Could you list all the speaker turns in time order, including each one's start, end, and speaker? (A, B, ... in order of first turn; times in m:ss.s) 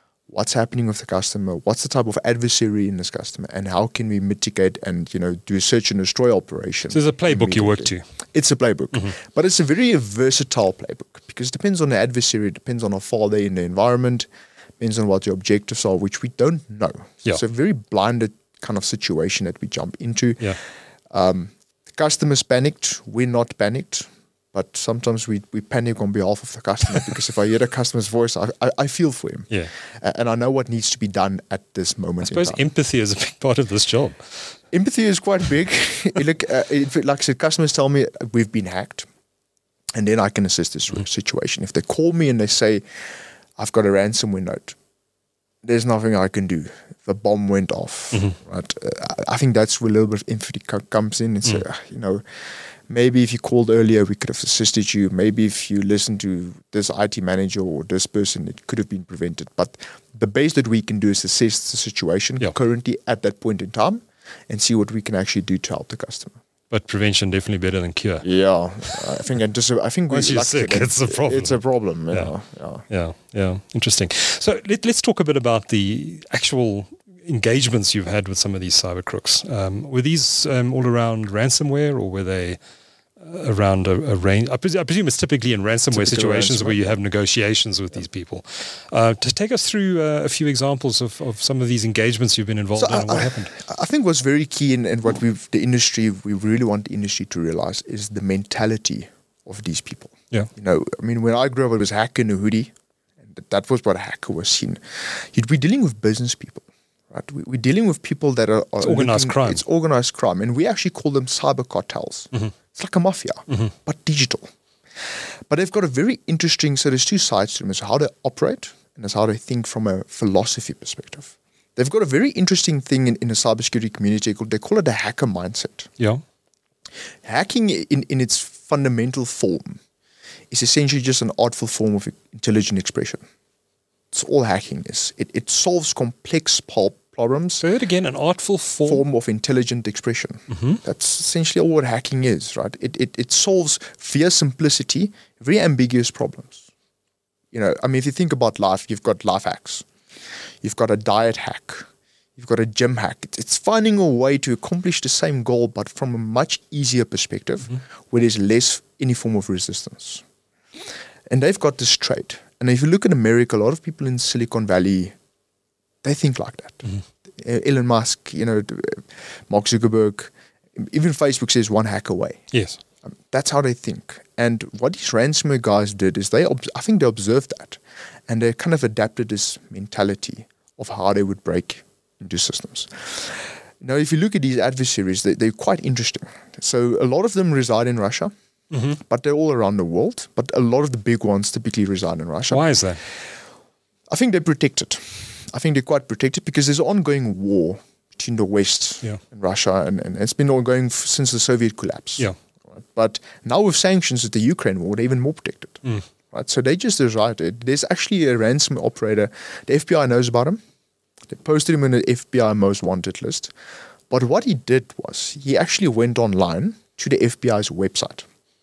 0:00.3-0:14.3 A
0:06.9-0:08.0 B
0:14.8-0:20.5 A
0:21.1-0:32.6 A
0:32.2-0:34.5 B
0:34.7-0:39.1 A
0:39.9-0:42.8 A
0:43.6-0:44.8 A
0:45.6-1:06.4 A
0:48.1-0:48.4 B
1:06.7-1:08.3 B
1:08.2-1:12.8 A
1:10.1-1:11.6 B
1:12.9-1:22.6 B
1:23.2-1:33.5 B
1:25.9-1:26.8 A
1:32.8-1:42.7 A
1:43.2-1:54.5 A
1:48.8-1:49.6 B
1:55.5-2:05.9 A
2:07.2-2:09.8 A
2:10.5-2:13.2 A
2:14.1-2:17.6 A
2:17.6-2:19.0 B
2:18.8-2:26.6 A
2:20.5-2:20.8 B
2:27.5-2:29.9 A
2:30.6-2:40.2 A
2:41.3-2:45.2 A
2:46.0-2:52.4 A
2:52.5-2:52.8 B
2:53.0-3:08.3 A
3:08.7-3:09.0 B
3:09.0-3:13.2 A
3:12.5-3:13.0 B
3:14.1-3:30.6 A
3:31.3-3:33.5 A
3:34.1-3:38.2 A